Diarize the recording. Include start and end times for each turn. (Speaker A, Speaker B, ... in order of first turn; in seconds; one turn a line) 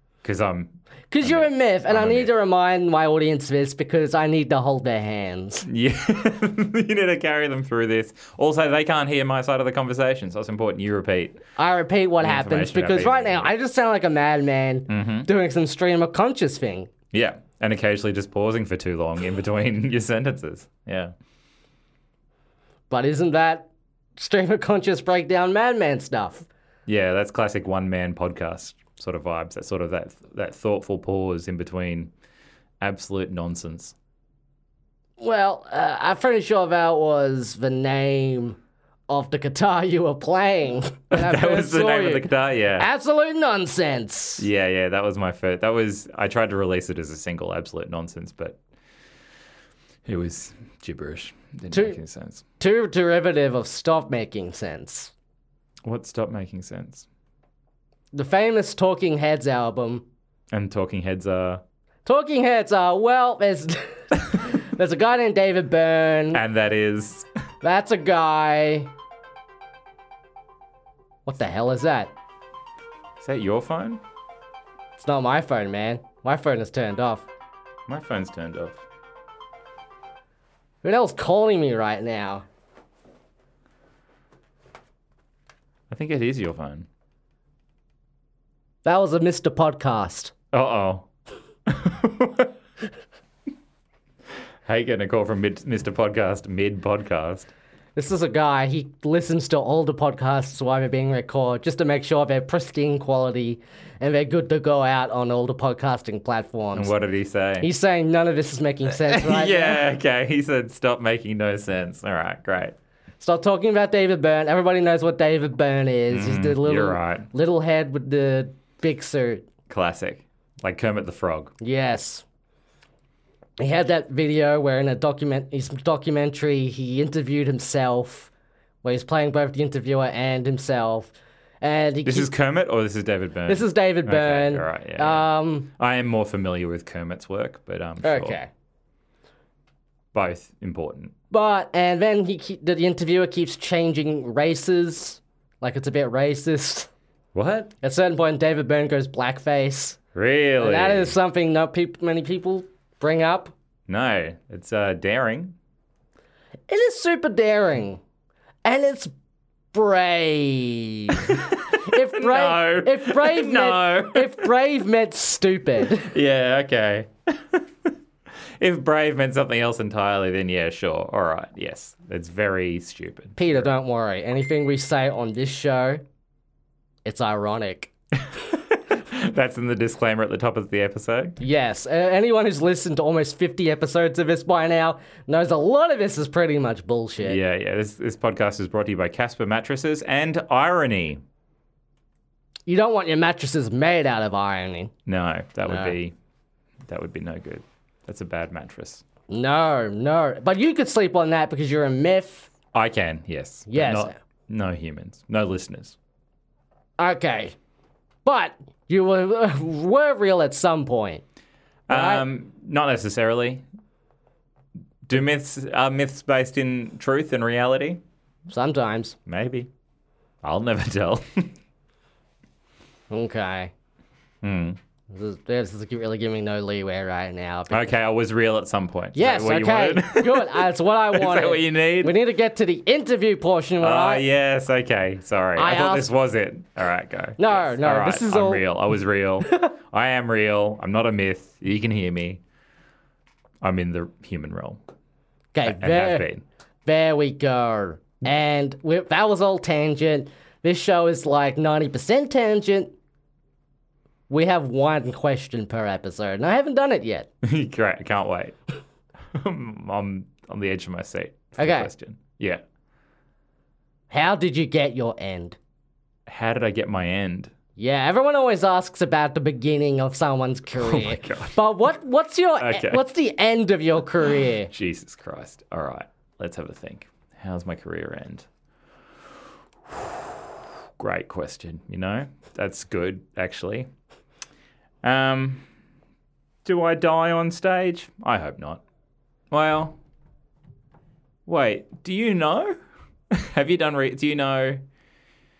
Speaker A: 0.2-2.3
Speaker B: 1.1-5.7
Speaker A: 5.7-11.4
Speaker B: 11.6-16.9
Speaker A: 12.2-13.5
Speaker A: 14.9-15.3
Speaker A: 17.1-21.1
Speaker B: 22.9-26.4
Speaker A: 26.9-32.1
Speaker A: 32.8-33.9
Speaker B: 35.2-38.6
Speaker B: 39.1-44.5
Speaker A: 41.1-42.9
Speaker A: 44.4-48.6
Speaker A: 50.0-52.4
Speaker B: 51.7-52.0
Speaker B: 52.6-55.1
Speaker A: 55.8-57.0
Speaker B: 58.1-60.0
Speaker A: 60.5-61.6
Speaker B: 62.0-66.4
Speaker A: 66.3-67.3
Speaker B: 67.6-68.9
Speaker B: 71.2-72.1
Speaker A: 73.2-74.0
Speaker B: 75.0-77.3
Speaker A: 77.9-78.8
Speaker B: 80.8-82.4
Speaker A: 85.9-86.9
Speaker B: 88.8-90.3
Speaker A: 90.5-91.1
Speaker A: 91.7-92.5
Speaker A: 94.7-97.5
Speaker B: 98.0-106.9
Speaker A: 106.7-107.7
Speaker B: 107.6-109.9
Speaker A: 108.9-112.7
Speaker B: 113.2-119.4
Speaker A: 116.1-117.3
Speaker A: 119.7-121.5
Speaker B: 121.6-122.2
Speaker B: 123.6-128.3
Speaker B: 128.8-132.3
Speaker A: 132.0-138.4
Speaker B: 133.5-135.7
Speaker B: 138.0-138.5
Speaker A: 140.1-141.1
Speaker B: 141.3-146.9
Speaker A: 147.3-147.7
Speaker B: 147.8-150.0
Speaker A: 150.1-151.1
Speaker B: 150.6-153.5
Speaker A: 153.9-155.5
Speaker B: 156.7-158.0
Speaker B: 158.6-159.1
Speaker B: 159.7-166.1
Speaker A: 161.2-164.4
Speaker A: 165.8-167.9
Speaker A: 168.6-173.7
Speaker B: 173.4-176.0
Speaker B: 177.0-177.9
Speaker A: 178.5-181.4
Speaker B: 181.4-187.4
Speaker A: 187.2-191.2
Speaker B: 192.7-194.9
Speaker A: 195.1-196.1
Speaker B: 195.7-195.9
Speaker A: 196.9-199.0
Speaker B: 199.3-202.5
Speaker A: 202.7-205.9
Speaker B: 203.7-204.2
Speaker B: 207.0-207.5
Speaker B: 208.2-211.2
Speaker A: 211.9-213.6
Speaker B: 211.9-212.2
Speaker A: 215.1-218.0
Speaker B: 218.5-219.2
Speaker A: 219.2-219.7
Speaker A: 220.4-221.5
Speaker B: 223.1-223.7
Speaker A: 224.4-224.8
Speaker B: 225.1-227.8
Speaker A: 227.7-232.2
Speaker B: 229.1-234.2
Speaker A: 233.8-242.4
Speaker B: 235.6-236.1
Speaker B: 237.4-238.6
Speaker A: 243.6-244.8
Speaker B: 245.5-246.3
Speaker A: 245.6-246.4
Speaker B: 246.8-252.9
Speaker B: 254.3-257.3
Speaker A: 257.4-258.6
Speaker A: 259.3-262.6
Speaker B: 261.6-261.9
Speaker B: 264.1-265.6
Speaker A: 266.3-267.5
Speaker B: 267.8-274.7
Speaker A: 270.8-271.6
Speaker A: 272.6-273.0
Speaker A: 274.5-278.4
Speaker A: 279.9-280.4
Speaker A: 281.0-283.9
Speaker A: 285.0-285.6
Speaker A: 286.6-288.8
Speaker A: 289.5-290.0
Speaker A: 291.4-292.8
Speaker A: 293.3-294.8